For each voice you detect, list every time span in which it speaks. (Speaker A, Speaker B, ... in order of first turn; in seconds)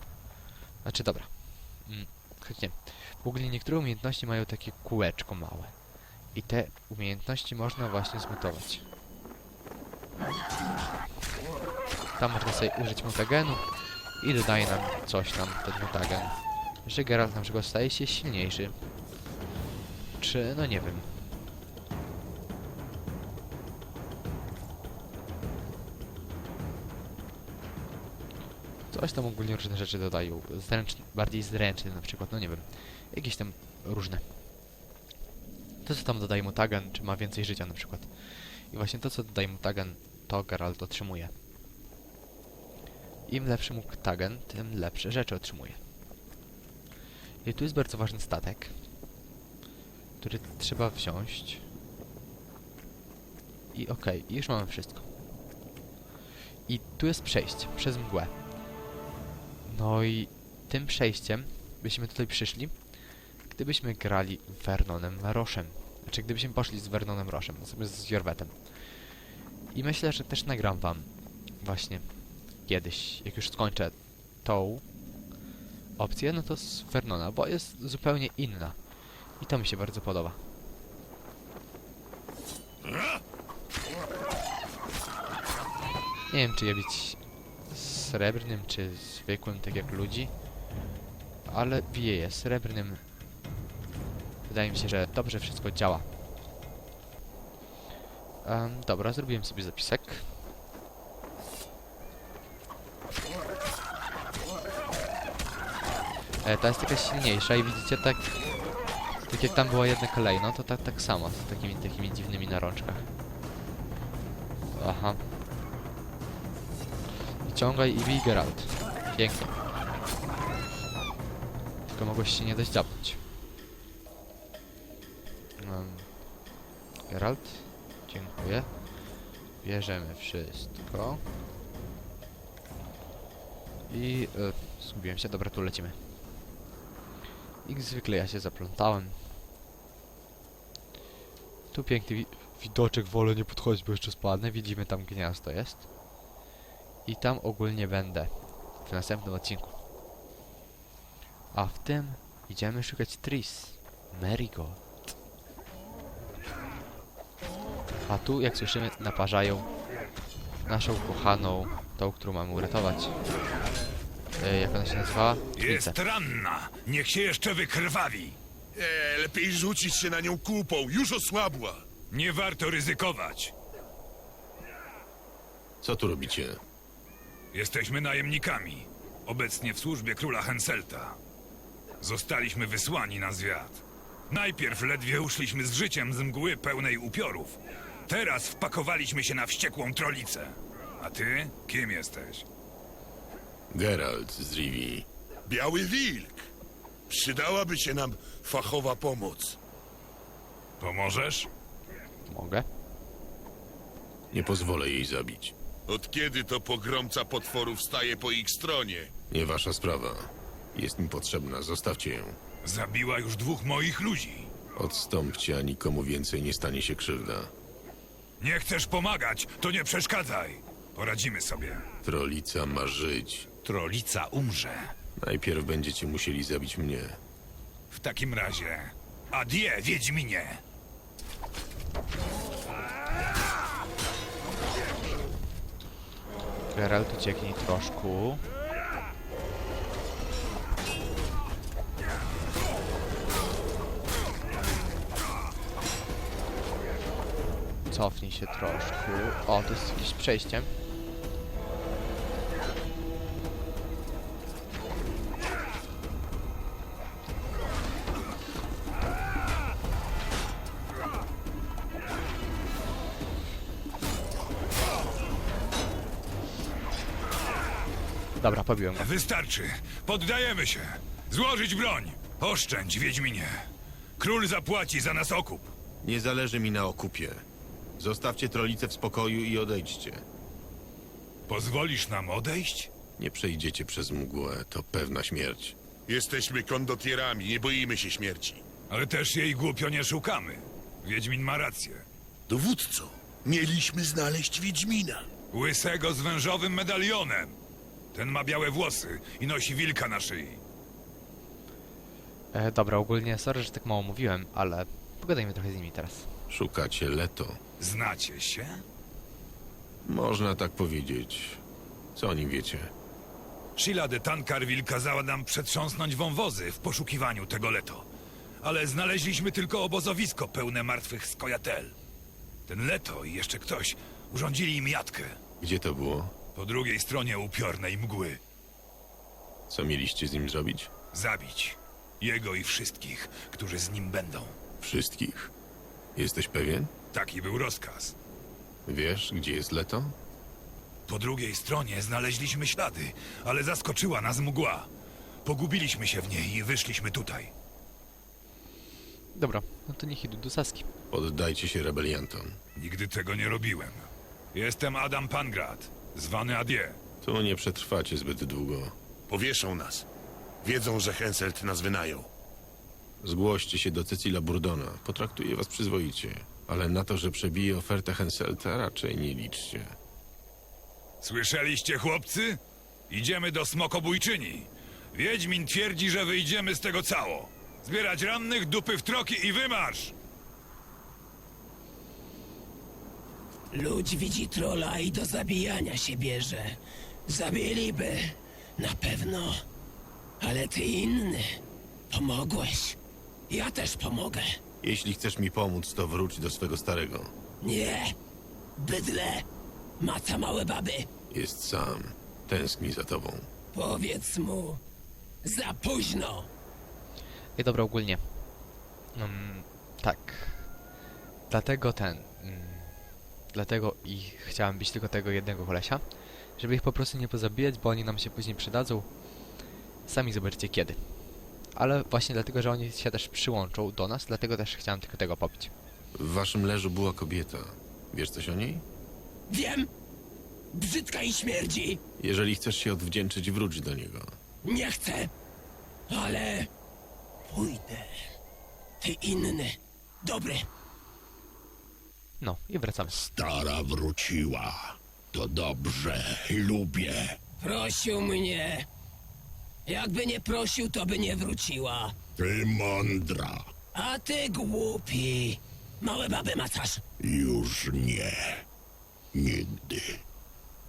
Speaker A: 0.8-5.8, 6.3-8.8, 12.2-18.8, 20.2-21.3, 28.9-34.2, 35.8-41.3, 43.2-45.8, 47.4-48.8, 50.2-51.6, 53.7-55.1, 56.7-58.3, 59.6-62.8, 63.5-69.2, 69.7-74.8, 76.0-78.8, 79.4-80.4, 86.3-90.3, 91.5-93.0, 94.5-96.1, 98.4-100.3, 106.4-108.5, 109.2-113.1, 114.7-115.2, 117.4-119.5, 121.9-123.2, 125.6-126.2, 127.1-129.1, 129.6-131.2, 133.9-136.0, 137.6-139.3, 141.7-145.9, 147.0-149.7, 151.5-154.8, 158.1-159.7, 160.7-163.1, 164.4-165.9, 202.3-202.7, 236.7-238.4, 247.9-250.7, 268.4-269.1, 302.5-306.3, 349.3-350.9, 407.6-408.2, 409.1-410.7, 411.5-413.0, 413.5-419.1, 420.1-421.0, 421.7-425.7, 442.4-443.2
Speaker B: 165.6-168.4, 172.1-173.5, 177.5-181.2, 182.0-192.4, 200.8-201.5, 212.6-214.5, 218.4-221.8, 223.6-224.9, 227.9-230.6, 268.9-273.7, 274.2-275.7, 281.5-282.9, 288.9-292.0, 295.5-297.6, 298.1-300.6, 307.8-308.8, 313.8-318.1, 318.6-321.9, 322.7-325.4, 326.6-328.4, 331.1-334.6, 337.1-338.1, 341.1-344.9, 345.4-347.5, 352.8-357.0, 371.2-380.1
Speaker C: 168.7-171.8, 195.4-196.4, 197.1-199.6, 205.9-209.1, 286.1-288.6, 292.5-295.3, 359.3-360.1, 360.6-362.3
Speaker D: 175.8-176.6, 193.7-195.1, 204.3-205.5, 209.3-212.4, 214.8-217.5, 222.0-223.5, 225.2-227.2, 276.0-277.4, 278.0-280.2, 283.2-285.8, 306.5-307.6, 310.0-311.6, 312.1-312.9, 325.6-326.3, 329.7-330.9, 334.8-335.5, 336.1-336.9, 338.9-340.1, 351.1-352.6, 357.2-358.9, 363.2-369.9, 394.8-397.3, 401.3-403.5, 426.1-428.8, 432.2-434.3
Speaker E: 383.7-389.6, 390.4-391.6, 392.1-393.0, 393.5-394.6, 397.6-398.1, 398.8-399.4, 400.0-401.1, 403.7-404.8, 405.4-406.5, 429.5-429.9, 430.7-432.0, 434.6-435.3, 436.1-436.7, 437.5-438.2, 439.0-440.7, 447.6-448.9, 449.9-452.1, 453.9-457.0
Speaker F: 443.1-447.4, 452.4-453.7, 457.2-458.7, 459.3-460.2